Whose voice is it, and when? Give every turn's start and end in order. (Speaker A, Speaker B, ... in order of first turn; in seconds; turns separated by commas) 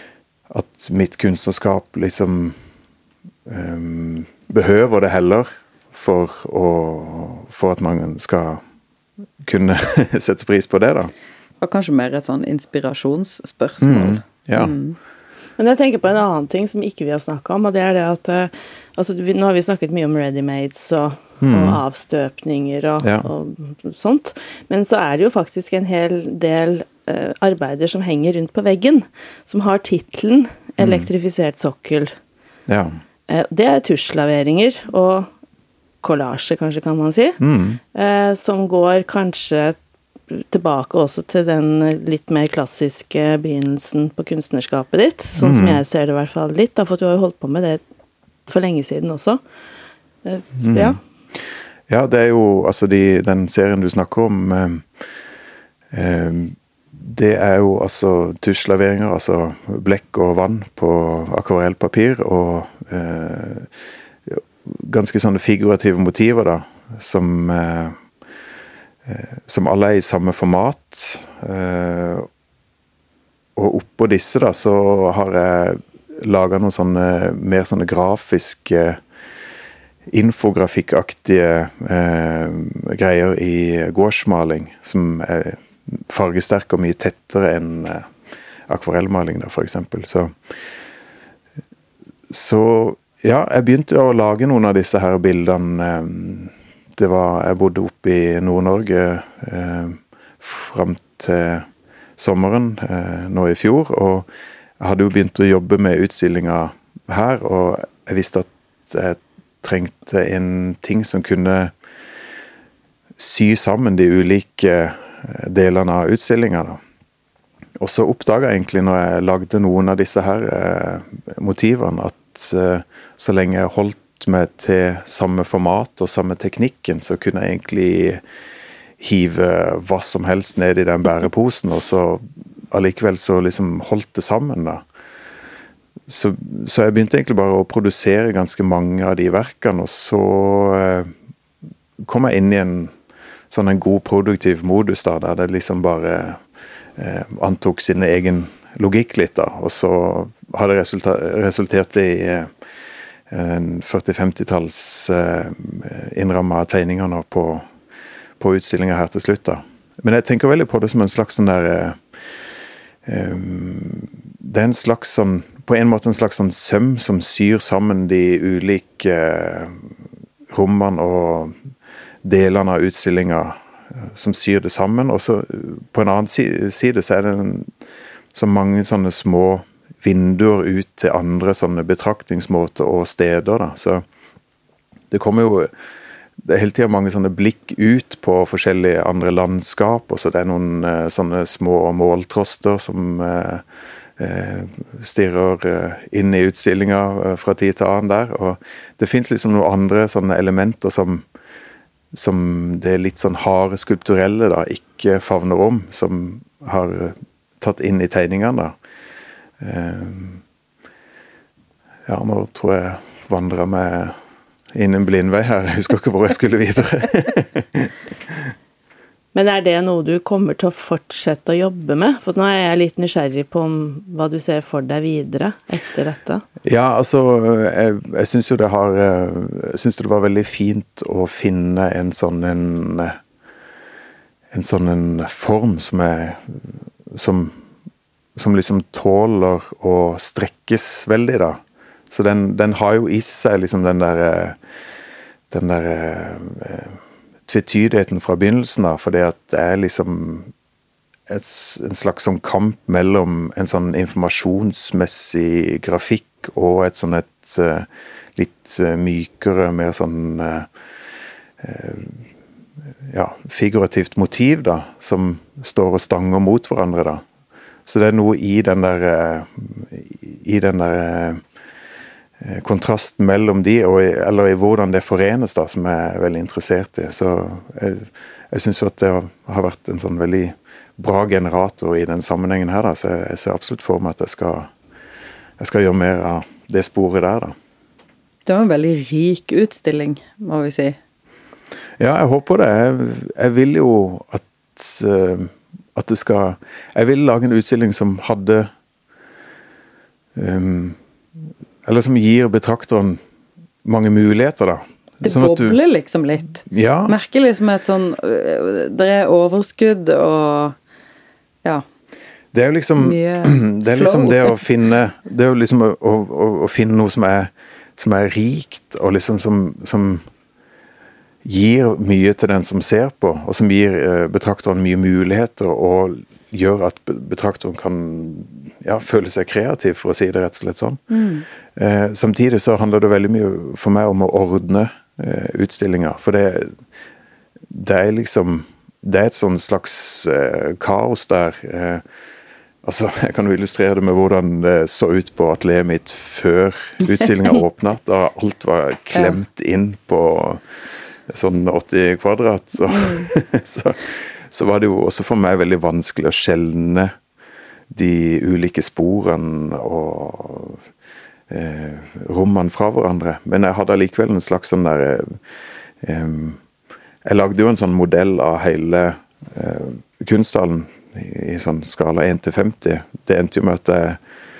Speaker A: 0.5-2.5, Speaker A: 3.5-8.6, Speaker A: 9.4-11.1, Speaker B: 11.6-15.0, Speaker A: 13.8-14.7, Speaker C: 15.6-32.1, Speaker A: 21.4-21.8, Speaker A: 23.0-23.3, Speaker A: 30.8-31.1, Speaker A: 32.7-32.9, Speaker C: 33.3-35.3, Speaker C: 36.0-37.4, Speaker A: 37.4-37.8, Speaker C: 37.9-39.8, Speaker C: 40.3-47.8, Speaker A: 45.4-45.8, Speaker C: 48.5-49.4, Speaker C: 50.2-51.0, Speaker A: 50.6-54.9, Speaker A: 55.9-63.7, Speaker A: 64.3-68.0, Speaker A: 69.0-72.3, Speaker A: 73.5-79.0, Speaker A: 80.1-88.1, Speaker A: 88.7-90.3, Speaker A: 92.3-101.7, Speaker A: 102.2-104.3, Speaker A: 104.8-111.7, Speaker A: 113.2-116.8, Speaker A: 117.8-128.2, Speaker A: 129.0-134.8, Speaker A: 136.1-141.1, Speaker A: 142.0-142.9, Speaker A: 143.5-146.4, Speaker A: 147.0-152.5, Speaker A: 153.3-157.7, Speaker A: 158.4-162.0, Speaker A: 163.1-169.9, Speaker A: 170.5-171.6, Speaker A: 172.2-177.7, Speaker A: 178.3-184.0, Speaker A: 185.1-185.7, Speaker A: 186.4-193.6, Speaker A: 194.2-201.3, Speaker A: 202.1-208.7, Speaker A: 209.6-210.4, Speaker A: 212.1-214.2, Speaker A: 214.7-218.5, Speaker C: 219.3-226.4, Speaker A: 226.6-233.2, Speaker A: 234.5-237.6, Speaker A: 238.4-244.6, Speaker A: 245.5-250.5, Speaker A: 251.3-260.7, Speaker A: 261.6-262.2, Speaker A: 263.1-267.2, Speaker A: 267.9-271.4, Speaker A: 272.4-284.7, Speaker A: 285.6-287.5, Speaker B: 288.4-291.0, Speaker A: 292.0-298.7, Speaker A: 300.4-301.0, Speaker A: 301.8-303.2, Speaker A: 303.8-305.8, Speaker B: 305.2-310.8, Speaker A: 306.7-307.1, Speaker A: 312.5-320.2, Speaker B: 313.0-314.6, Speaker A: 321.4-331.0, Speaker B: 331.1-331.4, Speaker A: 331.8-336.8, Speaker A: 337.7-342.0, Speaker A: 342.8-350.6, Speaker A: 351.3-357.1, Speaker B: 352.9-353.3, Speaker A: 357.9-360.8, Speaker A: 361.5-365.4, Speaker A: 366.0-366.6, Speaker A: 367.2-374.2